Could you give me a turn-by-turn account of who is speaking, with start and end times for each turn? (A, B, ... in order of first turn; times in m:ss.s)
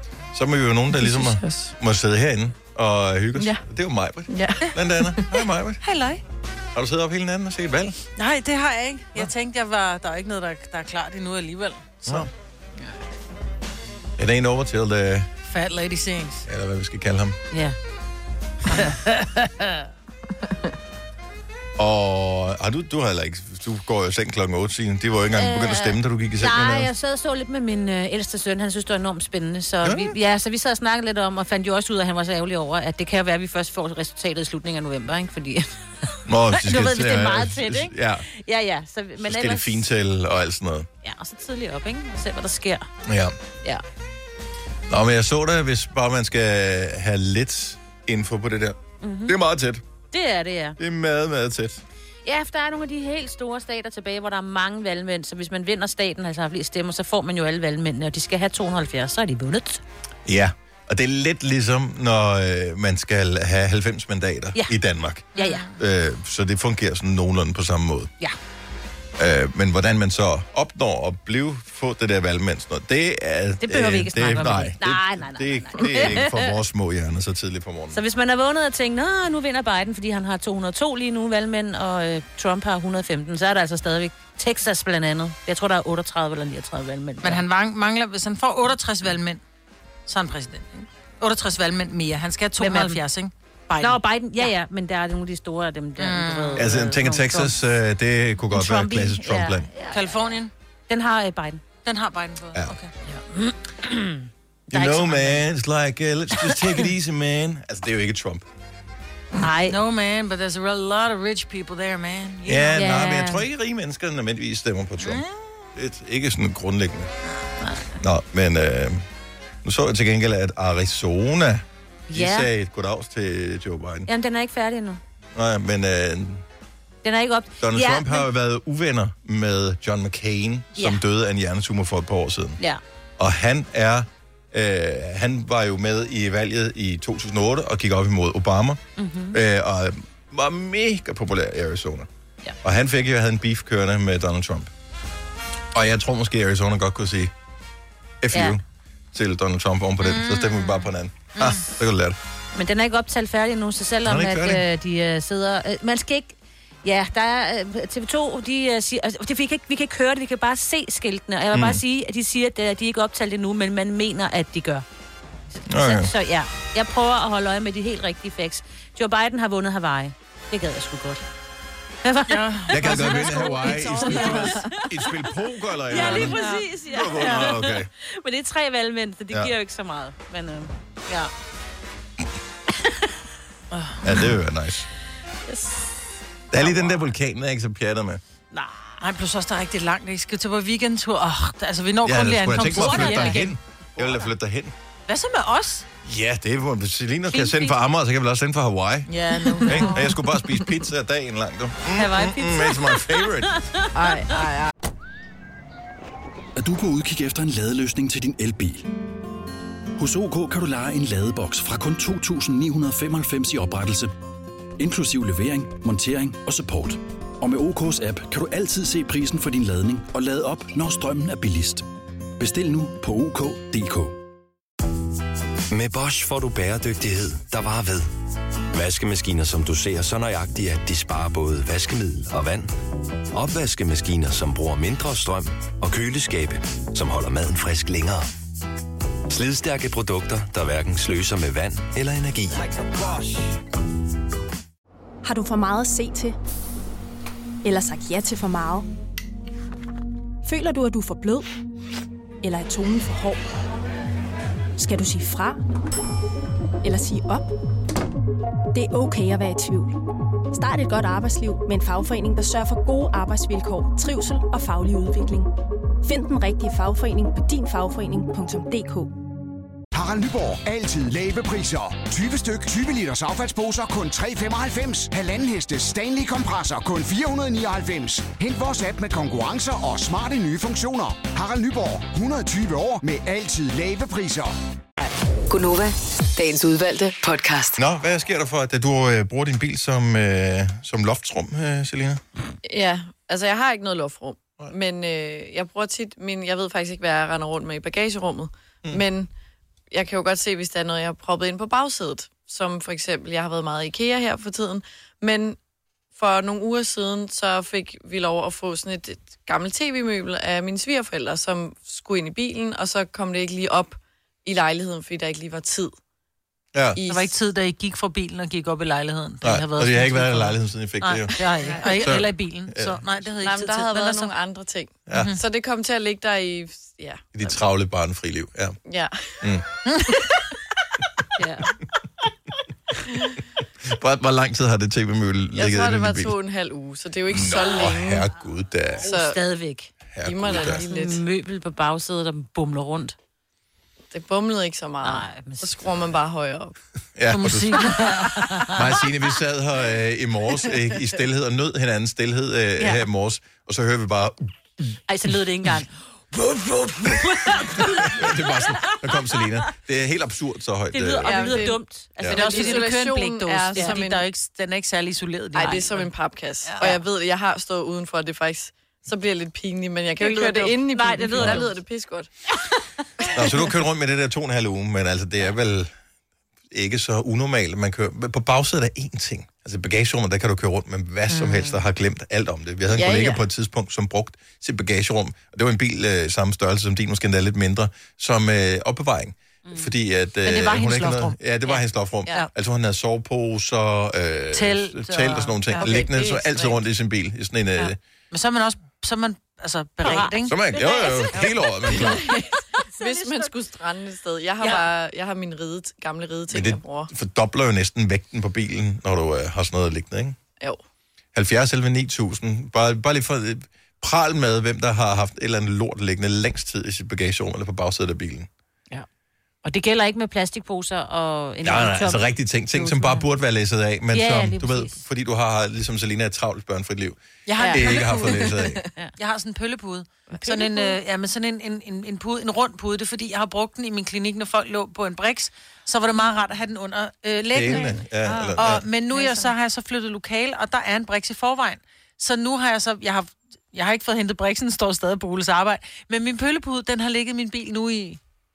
0:00.3-0:05.8 A
0:00.9-0:01.7 B
0:03.4-0:03.6 B
0:04.3-0:05.2 B
0:05.8-0:06.2 C
0:06.7-0:08.0 A
0:08.2-0:12.3 C
0:14.2-0:15.3 A
0:15.4-0:16.4 C
0:16.4-0:17.4 A
0:17.5-0:17.8 D
0:18.7-0:19.0 D
0:18.8-0:19.2 C
0:21.8-0:26.9 A
0:25.4-0:39.8 D
0:29.8-0:30.1 A
0:36.2-0:38.3 A
0:39.2-0:40.9 A
0:41.0-0:42.9 D
0:43.0-0:43.4 A
0:44.9-0:49.8 A
0:49.0-0:49.3 D
0:50.1-0:50.8 D
0:50.8-0:51.8 A
0:52.2-0:59.8 D
1:00.2-1:08.1 A
1:05.3-1:05.7 D
1:05.3-1:05.7 C
1:09.2-1:18.0 A
1:13.6-1:16.5 D
1:17.9-1:27.4 D
1:27.2-1:29.4 C
1:30.1-1:34.5 C
1:32.6-1:33.0 D
1:33.8-1:37.5 D
1:36.0-1:36.8 C
1:36.6-1:39.7 A
1:38.5-1:40.4 D
1:39.9-1:40.5 C
1:40.9-1:41.6 D
1:41.8-1:43.1 C
1:43.3-1:45.4 D
1:44.7-1:48.4 A
1:49.4-1:49.8 D
1:49.6-1:52.9 C
1:52.4-1:57.1 A
1:52.8-1:53.4 D
1:55.0-1:55.5 C
1:58.0-1:59.0 A
1:59.6-2:04.1 A
2:02.1-2:02.5 D
2:04.1-2:05.0 D
2:05.3-2:06.4 A
2:07.0-2:08.3 D
2:07.6-2:12.6 A
2:10.8-2:11.0 D
2:13.2-2:18.8 A
2:19.0-2:19.4 D
2:19.3-2:22.1 A
2:22.6-2:24.7 A
2:25.7-2:27.3 A
2:28.2-2:28.6 A
2:28.3-2:28.6 D
2:29.1-2:32.2 A
2:30.0-2:31.7 C
2:32.5-2:44.8 D
2:34.0-2:34.6 A
2:41.5-2:41.8 A
2:45.6-2:51.2 D
2:45.7-2:46.1 A
2:52.0-2:54.8 D
2:52.3-2:54.7 C
2:52.7-2:57.9 A
2:55.9-3:01.3 D
2:55.9-2:57.5 C
3:02.8-3:03.1 D
3:03.7-3:04.2 C
3:04.0-3:04.9 A
3:05.5-3:05.9 B
3:06.5-3:08.2 A
3:08.5-3:08.9 D
3:09.0-3:13.5 C
3:12.0-3:14.7 A
3:12.7-3:13.4 D
3:15.1-3:15.8 C
3:16.0-3:23.6 A
3:17.3-3:17.7 D
3:19.2-3:20.1 C
3:19.4-3:19.7 B
3:19.7-3:20.3 D
3:21.9-3:23.9 D
3:23.9-3:24.7 B
3:26.6-3:28.9 E
3:30.0-3:34.1 E
3:34.8-3:41.8 E
3:42.4-3:44.2 E
3:45.7-3:48.1 F
3:48.7-3:52.7 F
3:53.3-3:58.3 F
3:59.3-4:02.8 F
4:05.2-4:06.4 G
4:07.6-4:08.9 G
4:10.4-4:11.5 G
4:12.4-4:13.5 G
4:14.8-4:15.6 G
4:16.8-4:17.5 G
4:18.7-4:20.0 G
4:20.5-4:25.5 G
4:26.0-4:29.1 G
4:29.9-4:44.5 H
4:45.5-4:47.8 I
4:47.8-4:52.2 A
4:52.6-4:59.3 B
4:59.9-5:05.6 B
5:06.1-5:15.9 B
5:16.7-5:17.0 A
5:16.9-5:17.3 B
5:17.1-5:24.3 C
5:19.4-5:23.0 A
5:21.6-5:22.1 B
5:23.4-5:27.6 B
5:25.1-5:25.3 A
5:25.1-5:25.4 C
5:27.3-5:28.8 A
5:28.9-5:29.4 B
5:29.8-5:30.2 C
5:30.1-5:30.4 B
5:31.4-5:31.7 D
5:33.8-5:36.4 A
5:35.5-5:38.2 B
5:37.3-5:39.1 A
5:39.0-5:39.9 D
5:39.0-5:39.4 B
5:40.1-5:40.8 A
5:40.2-5:41.2 B
5:40.5-5:43.1 D
5:44.1-5:46.7 B
5:45.0-5:45.7 D
5:47.2-5:48.0 A
5:47.3-5:48.4 C
5:48.0-5:48.7 D
5:48.7-5:54.9 A
5:55.1-5:59.0 D
5:58.0-6:01.6 A
6:00.9-6:02.9 D
6:01.2-6:04.2 B
6:02.3-6:06.1 C
6:03.7-6:04.0 D
6:05.5-6:12.3 B
6:05.6-6:05.8 D
6:10.2-6:11.7 D
6:11.3-6:11.6 A
6:13.3-6:15.9 A
6:16.7-6:38.0 A
6:21.3-6:21.8 D
6:22.9-6:23.4 B
6:29.6-6:29.9 D
6:30.5-6:31.1 D
6:30.5-6:31.3 C
6:34.5-6:36.0 C
6:35.8-6:36.8 B
6:38.3-6:43.5 C
6:40.0-6:41.4 D
6:40.4-6:42.3 A
6:41.9-6:47.1 B
6:46.5-6:50.4 A
6:51.3-6:58.5 A
6:59.6-7:03.2 D
7:01.6-7:08.8 A
7:04.1-7:05.0 D
7:07.4-7:08.6 C
7:07.6-7:08.9 B
7:09.2-7:18.0 C
7:10.3-7:10.9 B
7:17.5-7:18.8 A
7:17.7-7:18.0 B
7:18.5-7:28.2 C